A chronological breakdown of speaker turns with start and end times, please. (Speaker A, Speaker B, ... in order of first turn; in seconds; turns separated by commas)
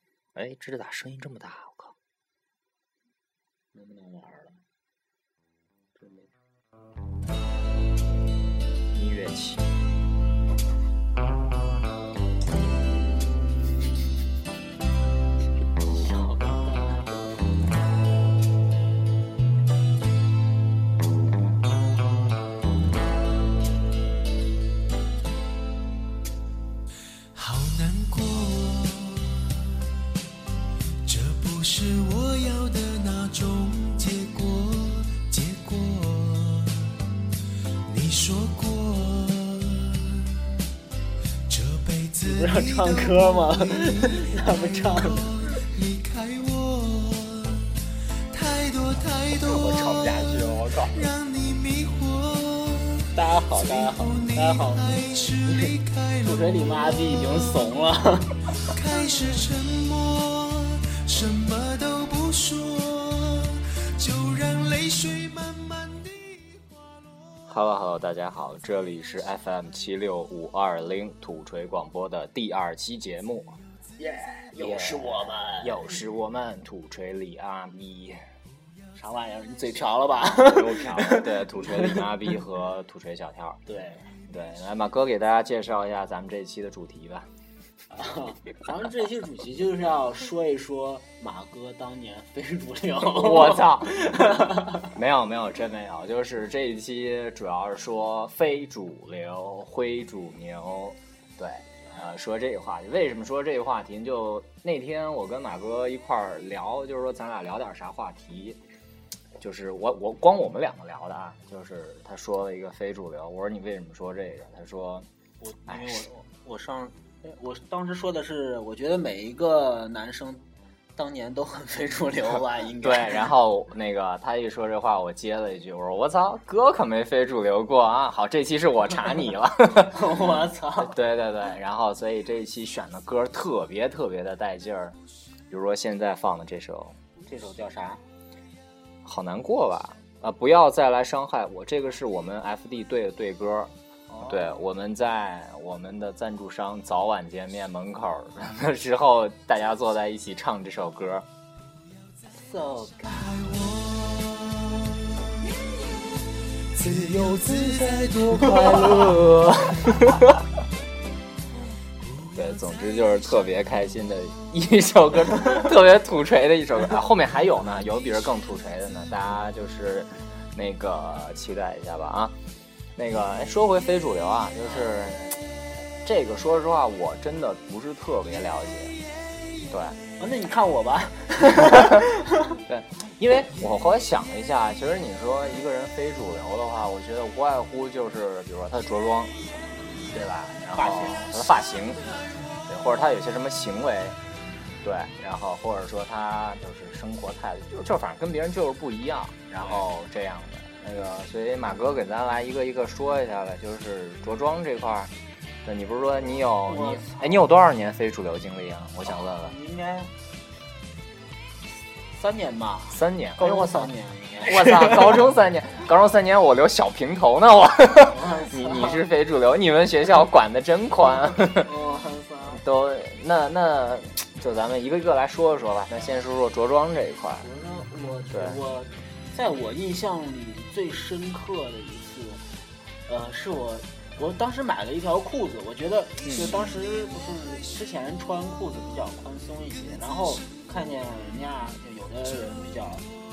Speaker A: 0.3-1.9, Speaker B: 3.7-4.6, Speaker B: 6.0-6.3, Speaker A: 8.9-9.7, Speaker B: 15.8-17.4, Speaker C: 27.3-29.5, Speaker C: 31.0-37.0, Speaker C: 37.8-40.4, Speaker C: 41.5-47.8, Speaker B: 42.2-45.4, Speaker C: 48.3-57.8, Speaker A: 49.4-51.1, Speaker B: 53.1-58.7, Speaker C: 58.6-66.6, Speaker A: 67.5-73.5, Speaker B: 74.0-75.8, Speaker A: 74.6-78.2, Speaker B: 78.9-82.1, Speaker A: 80.4-83.6, Speaker B: 83.7-84.0, Speaker A: 84.3-87.3, Speaker B: 87.9-94.9, Speaker A: 93.0-108.6, Speaker A: 109.4-115.0, Speaker B: 115.4-120.4, Speaker A: 115.7-116.1, Speaker B: 121.0-123.3, Speaker A: 122.8-130.1, Speaker B: 129.9-130.9, Speaker A: 130.8-135.0, Speaker A: 135.5-136.9, Speaker B: 137.2-138.0, Speaker A: 139.0-151.2, Speaker B: 144.1-144.6, Speaker B: 152.3-153.4, Speaker C: 153.1-159.6, Speaker A: 158.2-160.3, Speaker A: 162.3-172.3, Speaker A: 173.0-175.3, Speaker B: 174.7-175.3, Speaker A: 176.0-178.9, Speaker A: 179.7-180.0, Speaker B: 180.2-182.6, Speaker A: 181.6-182.1, Speaker A: 182.7-189.4, Speaker A: 190.1-192.2, Speaker B: 190.8-191.3, Speaker A: 192.7-194.2, Speaker A: 194.8-205.1, Speaker A: 205.6-209.6, Speaker B: 206.2-207.5, Speaker B: 209.1-210.1, Speaker B: 212.1-215.3, Speaker A: 212.9-213.9, Speaker A: 214.4-221.7, Speaker B: 218.0-219.0, Speaker B: 221.4-222.6, Speaker A: 222.5-227.5, Speaker B: 227.4-232.4, Speaker A: 228.3-228.6, Speaker B: 233.1-243.1, Speaker A: 236.2-236.7